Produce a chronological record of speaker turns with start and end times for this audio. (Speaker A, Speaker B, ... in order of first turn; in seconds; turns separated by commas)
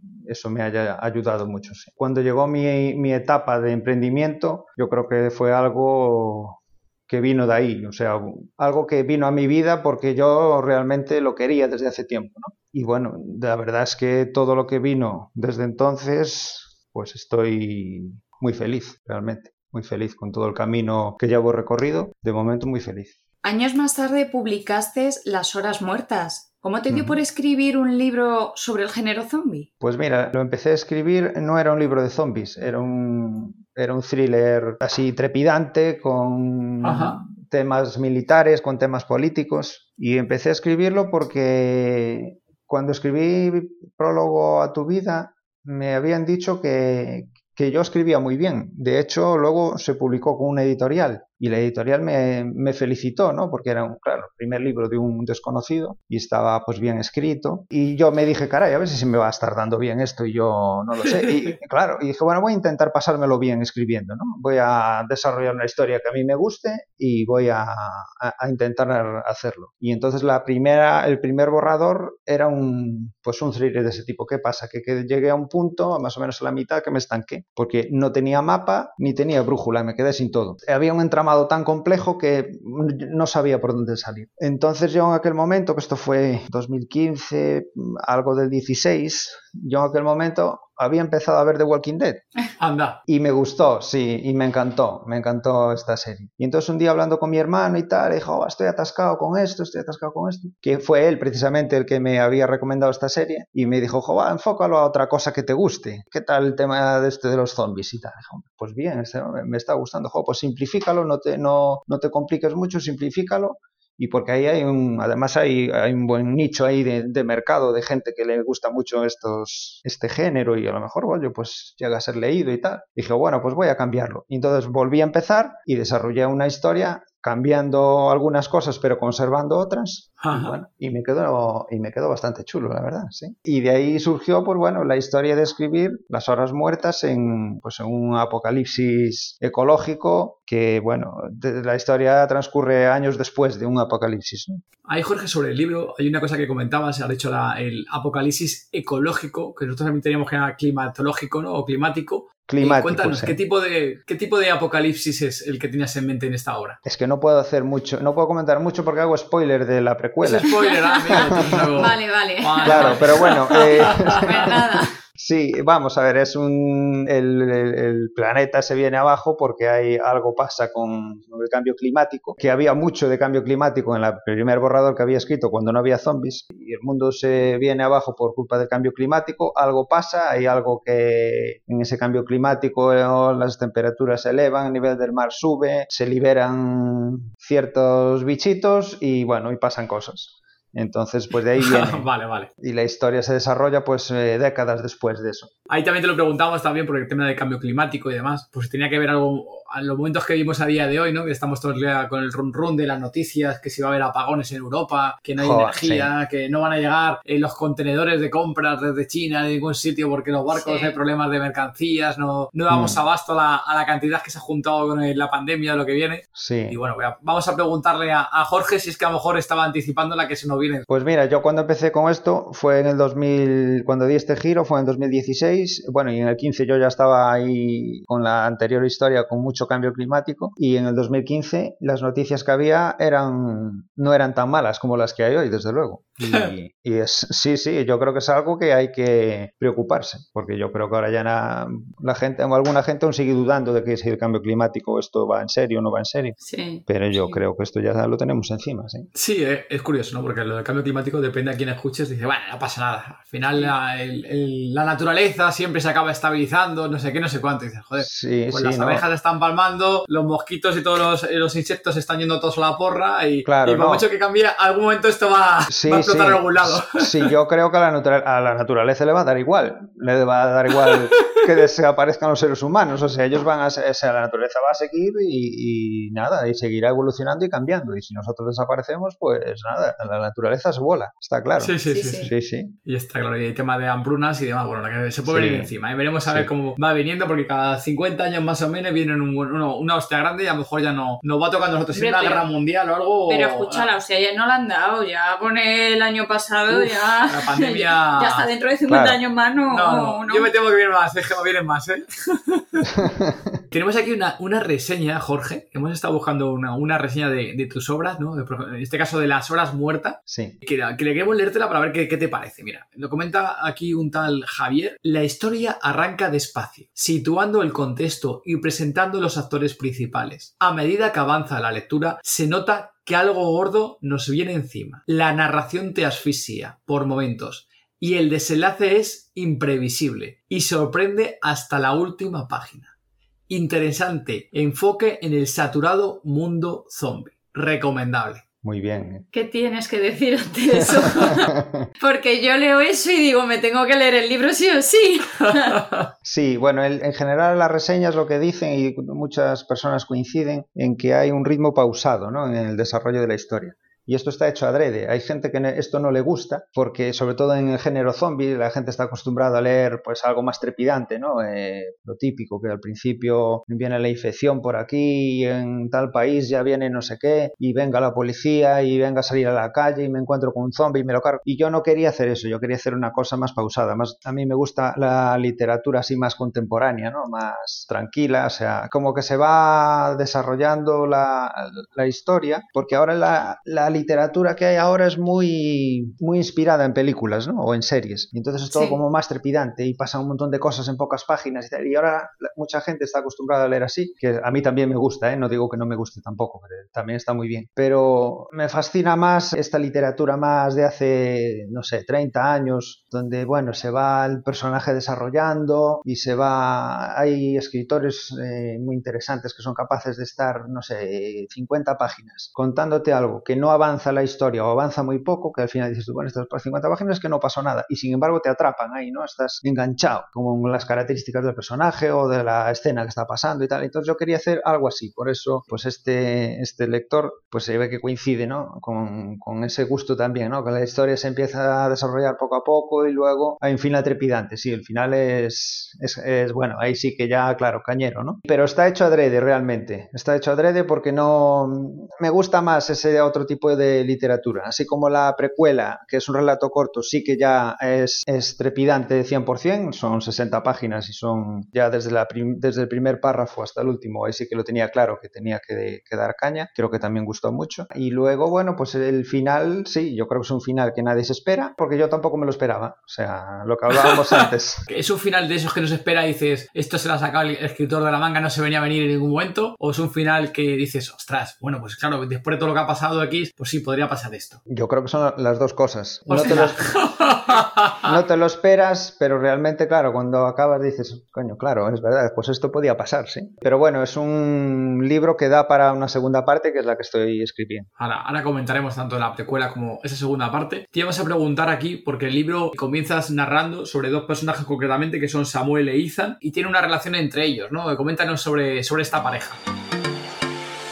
Speaker A: 0.2-23.1, Speaker B: 23.4-29.7, Speaker A: 26.9-27.2, Speaker A: 29.8-92.2, Speaker C: 36.8-37.2, Speaker C: 61.1-61.5, Speaker C: 92.6-93.0, Speaker A: 93.1-144.6, Speaker C: 130.2-130.6, Speaker C: 144.8-156.8, Speaker A: 152.5-153.4, Speaker A: 156.8-160.5, Speaker C: 160.2-164.6, Speaker B: 160.5-164.9, Speaker A: 161.1-161.9, Speaker A: 162.6-192.1, Speaker C: 191.6-192.5, Speaker A: 192.6-195.5, Speaker C: 195.7-220.8, Speaker A: 205.4-206.1, Speaker B: 210.5-211.0, Speaker A: 212.7-213.0, Speaker A: 216.3-216.8, Speaker A: 220.9-249.1, Speaker B: 246.4-247.4, Speaker C: 249.1-267.3, Speaker A: 258.0-259.0, Speaker A: 263.4-264.0, Speaker A: 265.7-282.7, Speaker C: 281.6-282.3, Speaker B: 281.9-282.3, Speaker C: 282.8-293.9, Speaker A: 285.2-286.5, Speaker B: 291.9-292.4, Speaker B: 293.3-300.5, Speaker C: 296.7-298.5, Speaker A: 298.9-299.2, Speaker C: 299.7-303.1, Speaker A: 302.8-303.6, Speaker C: 303.7-332.9, Speaker A: 310.3-310.5, Speaker C: 333.5-338.4, Speaker A: 338.6-339.2, Speaker B: 339.3-345.8, Speaker A: 341.2-341.9, Speaker C: 345.5-346.0, Speaker A: 346.2-464.9, Speaker B: 388.7-389.0, Speaker C: 464.9-474.6, Speaker A: 474.7-476.9, Speaker C: 476.3-478.1, Speaker A: 478.0-487.9, Speaker C: 488.0-499.6